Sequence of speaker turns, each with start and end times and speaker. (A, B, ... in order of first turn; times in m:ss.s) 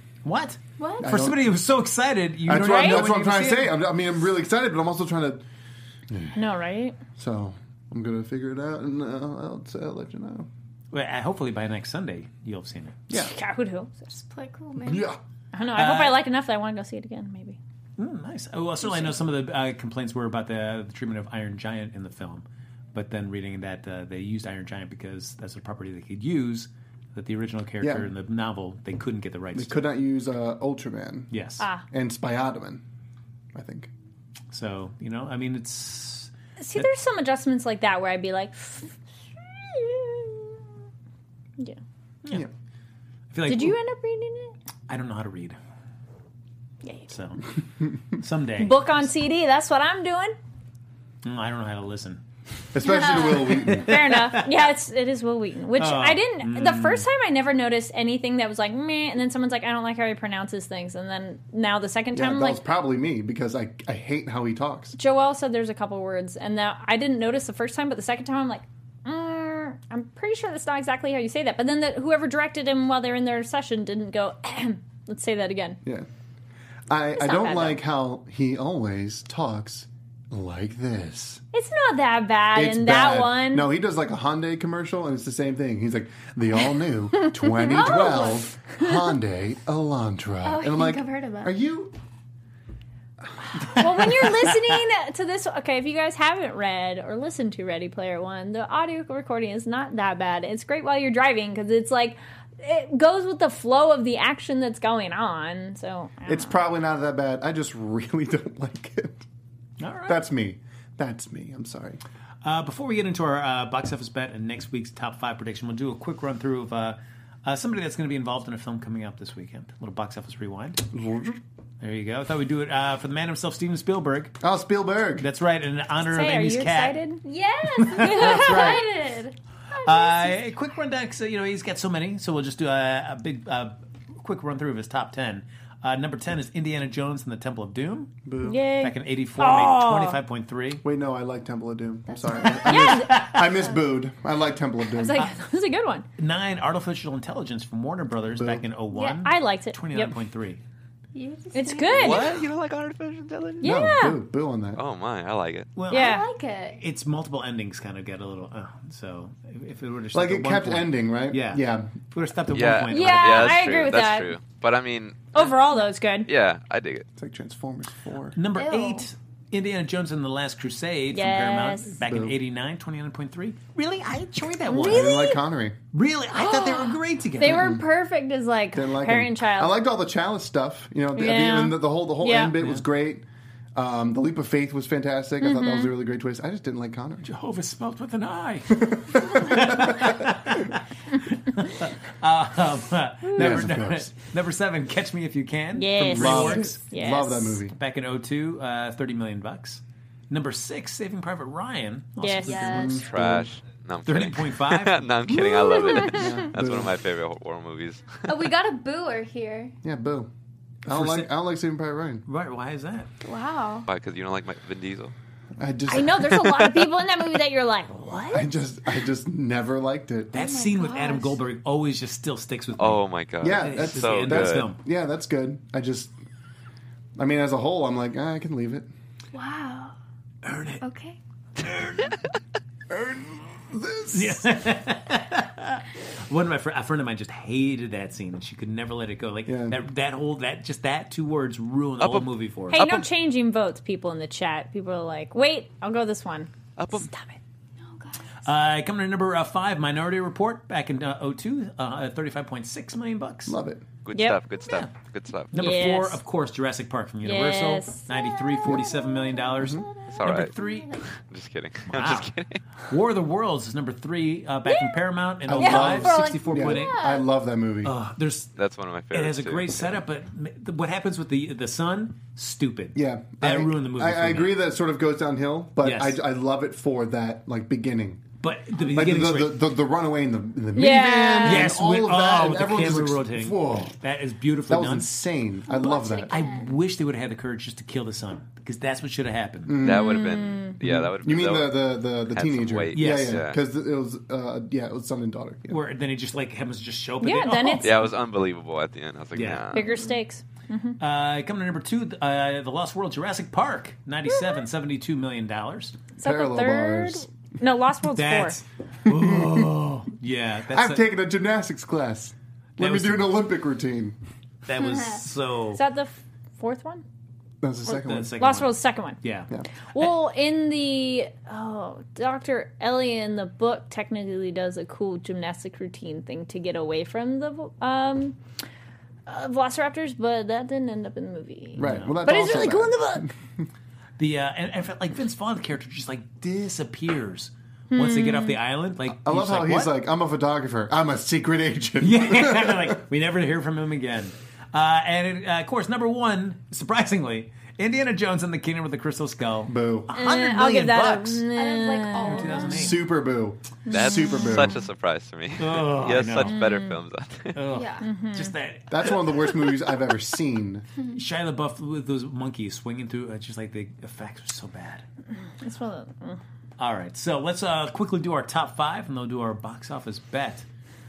0:00.2-0:03.8 A
0:00.8-0:01.1 B
0:01.0-0:01.5 C
0:02.5-0:05.4 C
0:02.7-0:03.1 D
0:06.1-0:06.4 C
0:06.4-0:07.0 D
0:07.2-0:10.5 C
0:10.9-0:13.0 A
0:13.1-0:14.1 D
0:14.1-0:15.1 B
0:14.8-0:15.2 C
0:15.5-0:17.6 D
0:15.7-0:16.2 A
0:18.0-0:29.9 A
0:27.8-0:28.1 C
0:29.5-0:31.3 C
0:31.3-0:31.6 A
0:31.6-0:31.9 D
0:31.9-0:32.8 C
0:33.5-0:33.9 C
0:34.5-0:36.9 A
0:36.6-0:40.6 D
0:43.3-0:43.8 A
0:43.5-0:44.5 D
0:44.9-0:45.6 A
0:46.8-0:47.1 D
0:47.1-0:47.5 A
0:48.1-0:49.0 A
0:48.6-0:50.4 D
0:51.2-0:52.2 A
0:52.7-0:54.0 C
0:52.8-0:53.6 B
0:53.3-0:54.7 A
0:53.6-1:02.6 D
0:55.8-0:57.1 A
1:02.1-1:05.0 C
1:05.0-1:15.8 D
1:16.9-1:21.4 C
1:17.2-1:17.8 D
1:21.5-1:23.7 D
1:22.5-1:32.0 C
1:27.2-1:28.4 D
1:27.6-1:28.5 B
1:30.4-1:31.5 B
1:33.6-1:34.8 A
1:33.6-1:46.5 D
1:46.3-1:49.3 C
1:49.8-1:50.2 A
1:50.1-1:52.0 C
1:52.4-2:00.8 A
2:00.9-2:01.4 C
2:01.8-2:04.4 A
2:04.4-2:05.3 C
2:05.2-2:07.0 A
2:06.0-2:07.2 D
2:07.2-2:09.4 B
2:07.8-2:08.9 A
2:08.0-2:08.8 D
2:09.8-2:18.2 A
2:09.9-2:10.3 B
2:18.2-2:18.6 C
2:18.4-2:20.2 D
2:18.8-2:20.8 A
2:20.8-2:25.3 C
2:22.1-2:22.6 B
2:22.4-2:23.5 A
2:22.7-2:23.3 D
2:24.9-2:26.1 D
2:26.2-2:30.6 A
2:28.4-2:28.6 C
2:28.9-2:29.2 B
2:29.2-2:30.2 D
2:31.1-2:32.4 B
2:31.5-2:32.4 D
2:32.0-2:33.7 E
2:33.6-2:34.2 D
2:33.6-2:34.8 C
2:34.8-2:35.7 E
2:35.8-2:43.6 A
2:35.9-2:36.3 D
2:35.9-2:36.8 B
2:40.1-2:41.9 C
2:42.5-2:45.5 E
2:42.9-2:44.3 D
2:45.3-2:46.3 D
2:46.3-2:47.1 E
2:47.2-2:48.4 C
2:48.4-2:55.3 A
2:48.6-2:49.1 B
2:51.1-2:52.0 D
2:52.0-2:52.4 C
2:54.7-2:55.4 D
2:54.8-2:55.8 C
2:55.9-2:57.8 A
2:56.3-2:59.8 D
2:57.4-2:57.8 C
2:58.7-3:07.3 C
3:01.2-3:02.6 D
3:05.4-3:05.9 D
3:07.2-3:16.8 A
3:08.8-3:10.2 C
3:13.4-3:14.1 C
3:15.8-3:17.6 D
3:16.0-3:17.7 C
3:17.7-3:23.1 A
3:22.2-3:22.8 D
3:22.4-3:23.0 B
3:22.6-3:23.5 C
3:23.0-3:28.3 E
3:24.0-3:25.1 A
3:25.3-3:26.5 D
3:26.0-3:27.0 C
3:28.3-3:29.8 B
3:29.8-3:30.3 C
3:30.8-3:32.2 C
3:30.9-3:31.3 A
3:32.3-3:33.1 A
3:33.2-3:33.9 B
3:33.9-3:35.1 E
3:35.6-3:36.4 C
3:35.9-3:38.5 D
3:36.2-3:36.9 E
3:38.3-3:40.3 C
3:40.3-3:41.4 B
3:40.3-3:44.8 A
3:42.8-3:44.7 E
3:43.4-3:46.1 C
3:47.2-3:48.9 C
3:49.3-3:50.0 B
3:50.4-3:50.8 A
3:50.8-3:51.2 B
3:51.6-3:52.2 A
3:52.9-3:54.4 C
3:54.1-4:02.8 A
3:59.5-3:59.8 C
4:02.0-4:03.0 E
4:02.7-4:07.4 D
4:06.8-4:07.1 E
4:07.8-4:08.3 B
4:08.4-4:13.6 A
4:13.5-4:13.9 C
4:14.0-4:15.7 E
4:14.1-4:14.4 D
4:14.7-4:14.9 A
4:15.5-4:16.2 D
4:15.5-4:21.0 A
4:17.2-4:18.1 D
4:18.1-4:21.1 B
4:19.6-4:19.8 C
4:20.1-4:20.5 E
4:21.1-4:22.6 E
4:21.9-4:22.3 A
4:22.9-4:27.0 A
4:24.7-4:26.5 D
4:25.5-4:27.9 C
4:26.0-4:27.3 B
4:27.8-4:28.5 A
4:28.6-4:30.0 E
4:29.1-4:34.7 A
4:32.9-4:38.2 C
4:35.8-4:36.2 A
4:38.4-4:39.6 A
4:38.9-4:44.0 C
4:40.8-4:41.7 D
4:41.4-4:45.2 A
4:44.7-4:46.5 C
4:45.7-4:46.8 B
4:46.3-4:49.8 A
4:49.7-4:50.2 C
4:49.8-4:53.6 E
4:49.8-4:50.8 D
4:50.8-4:55.8 C
4:52.9-4:53.5 A
4:55.7-4:58.0 A
4:57.2-4:58.1 D
4:57.8-4:59.9 E
4:59.3-4:59.9 A
4:59.7-5:01.0 D
5:01.0-5:06.0 A
5:06.2-5:08.6 D
5:06.2-5:07.3 C
5:08.2-5:11.1 A
5:09.1-5:09.7 C
5:10.7-5:14.2 C
5:12.8-5:13.4 A
5:14.7-5:15.8 A
5:14.9-5:15.2 B
5:15.7-5:17.0 D
5:17.6-5:18.4 C
5:17.9-5:20.1 A
5:18.4-5:19.2 D
5:19.9-5:28.4 D
5:29.3-5:33.3 D
5:31.8-5:33.7 C
5:31.8-5:32.3 A
5:34.2-5:40.0 A
5:37.9-5:38.6 D
5:39.1-5:43.0 C
5:42.0-5:51.5 A
5:49.7-5:50.1 C
5:50.1-5:52.8 D
5:51.5-5:53.0 B
5:52.2-5:53.1 A
5:52.7-5:54.8 C
5:53.9-5:54.7 D
5:53.9-5:57.6 E
5:55.6-5:56.6 A
5:56.4-5:57.0 D
5:57.5-5:59.6 A
5:57.7-5:58.1 B
5:58.0-5:58.5 D
5:58.9-6:00.9 C
6:01.1-6:05.0 A
6:05.6-6:06.4 D
6:06.8-6:10.7 A